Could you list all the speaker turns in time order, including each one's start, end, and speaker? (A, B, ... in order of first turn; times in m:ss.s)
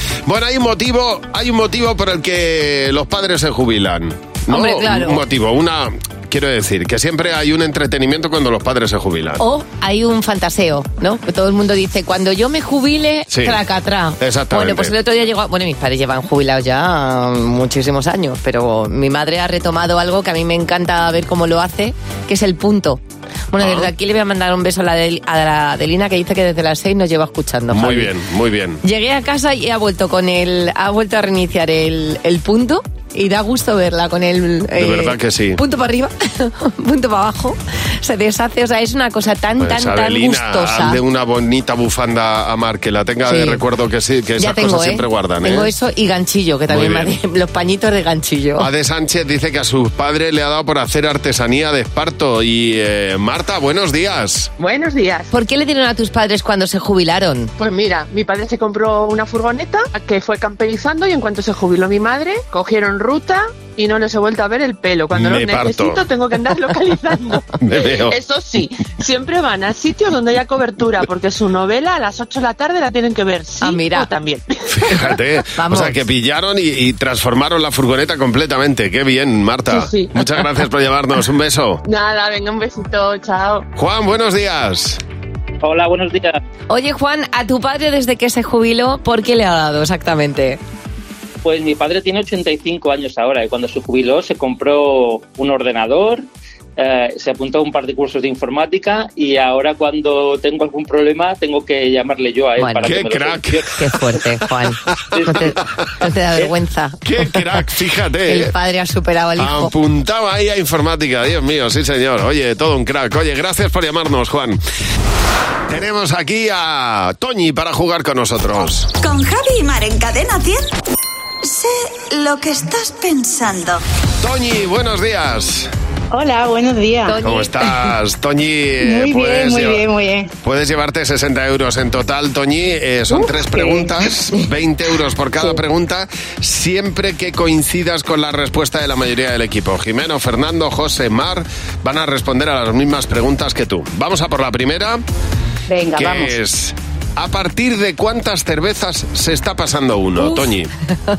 0:00.3-0:09.4 A
0:04.5-0:05.2 B
0:09.4-0:28.1 B
0:13.3-0:13.6 A
0:14.2-0:14.9 A
0:23.6-0:23.9 A
0:27.7-0:28.8 A
0:28.8-0:41.0 B
0:34.8-0:35.6 A
0:39.6-0:45.7 A
0:43.3-0:43.6 B
0:44.4-0:48.7 B
0:46.7-0:47.1 A
0:48.6-0:54.5 A
0:54.6-0:55.3 C
0:55.3-0:57.5 B
0:57.6-1:07.4 C
1:05.1-1:06.0 A
1:07.6-1:08.2 A
1:08.1-1:14.6 C
1:13.6-1:14.1 B
1:14.7-1:21.8 A
1:15.6-1:16.0 B
1:19.7-1:20.3 C
1:21.8-1:23.7 C
1:23.8-1:25.0 A
1:25.6-1:26.3 D
1:26.7-1:30.6 B
1:31.4-1:36.2 D
1:36.8-1:43.6 D
1:42.6-1:43.0 B
1:42.8-1:43.6 A
1:43.7-1:47.4 B
1:47.0-1:48.5 A
1:48.3-1:49.7 B
1:49.4-1:54.6 A
1:55.7-1:58.9 A
1:59.0-2:00.7 E
2:01.4-2:03.8 E
2:04.2-2:05.7 A
2:06.1-2:07.2 F
2:07.0-2:07.9 B
2:07.2-2:09.9 A
2:08.8-2:10.3 F
2:10.4-2:25.0 A
2:13.1-2:14.0 F
2:25.7-2:26.4 F
2:26.0-2:30.7 A